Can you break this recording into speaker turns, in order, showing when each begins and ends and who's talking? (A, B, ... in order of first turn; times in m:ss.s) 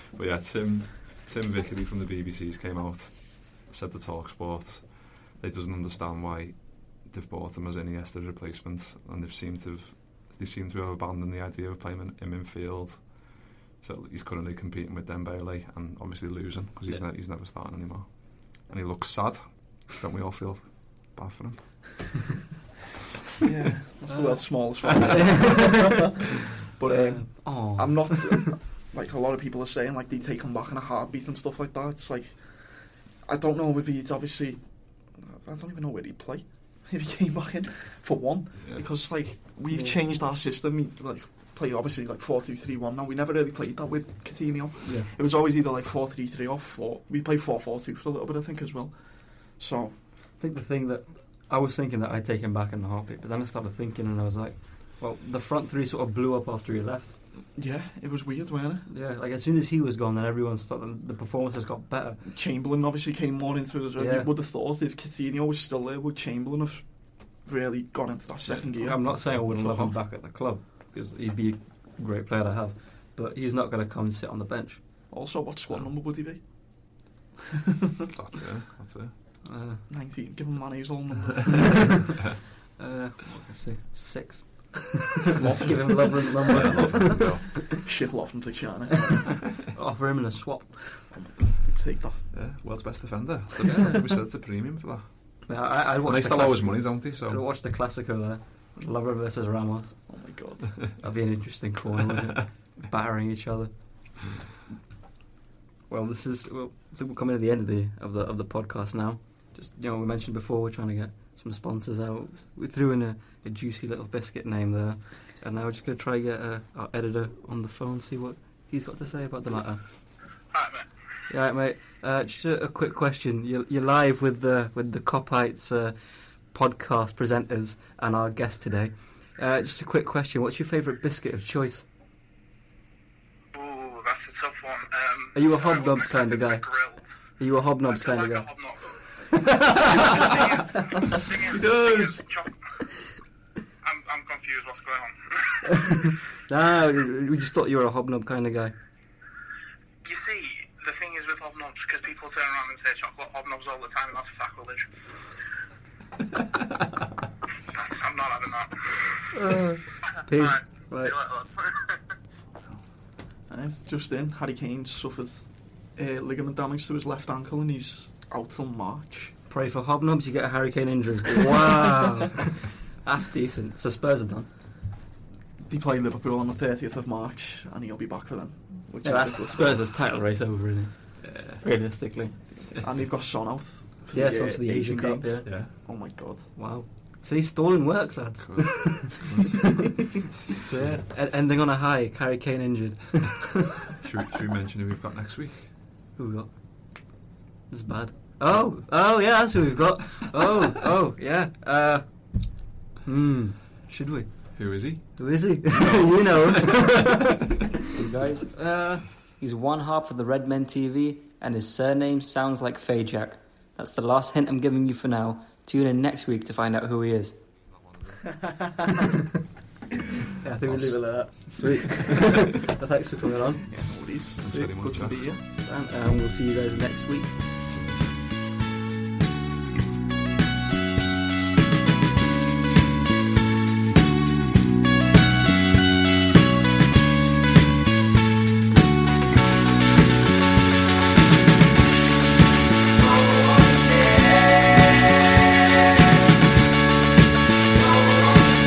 0:00.1-0:22.2 A
0:23.4-0:50.0 B
0:24.0-0:26.1 C
0:26.8-0:28.5 C
0:39.7-0:40.0 C
0:44.8-0:45.1 C
0:50.4-0:57.2 C
0:57.5-0:58.9 B
0:58.9-1:02.2 C
1:02.2-1:10.0 B
1:04.0-1:04.3 C
1:08.7-1:15.1 C
1:15.1-1:16.9 B
1:18.1-1:19.1 A
1:19.4-1:19.8 C
1:19.9-1:22.1 B
1:21.5-1:22.0 C
1:22.8-1:27.4 C
1:25.4-1:29.5 B
1:26.5-1:27.7 A
1:29.7-1:31.0 C
1:31.0-1:32.3 B
1:32.3-1:37.4 A
1:33.7-1:34.0 C
1:35.5-1:40.2 C
1:40.1-1:41.0 B
1:40.9-1:43.7 C
1:45.9-1:59.8 C
2:00.5-2:00.9 D
2:01.3-2:11.8 C
2:13.5-2:17.2 D
2:15.3-2:16.6 C
2:17.4-2:18.4 C
2:17.8-2:22.5 D
2:19.3-2:22.2 C
2:23.8-2:26.1 D
2:25.7-2:28.7 C
2:30.0-2:34.9 D
2:37.7-2:39.2 D
2:39.3-2:41.1 C
2:40.3-2:42.0 D
2:43.5-2:49.3 B
2:49.5-2:54.5 C
2:55.6-2:59.9 B
2:59.0-3:02.4 C
3:01.2-3:01.6 A
3:02.6-3:06.6 B
3:04.1-3:05.9 C
3:05.4-3:05.7 A
3:06.5-3:13.7 C
3:08.4-3:11.0 A
3:14.0-3:15.7 A
3:16.2-3:17.1 C
3:17.7-3:22.5 C
3:23.0-3:37.4 C
3:24.5-3:27.3 A
3:37.8-3:38.2 A
3:40.3-3:43.7 C
3:40.6-3:41.0 A
3:43.6-3:45.4 B
3:44.4-3:45.3 A
3:44.5-3:44.7 C
3:45.4-3:47.4 C
3:47.7-3:48.1 A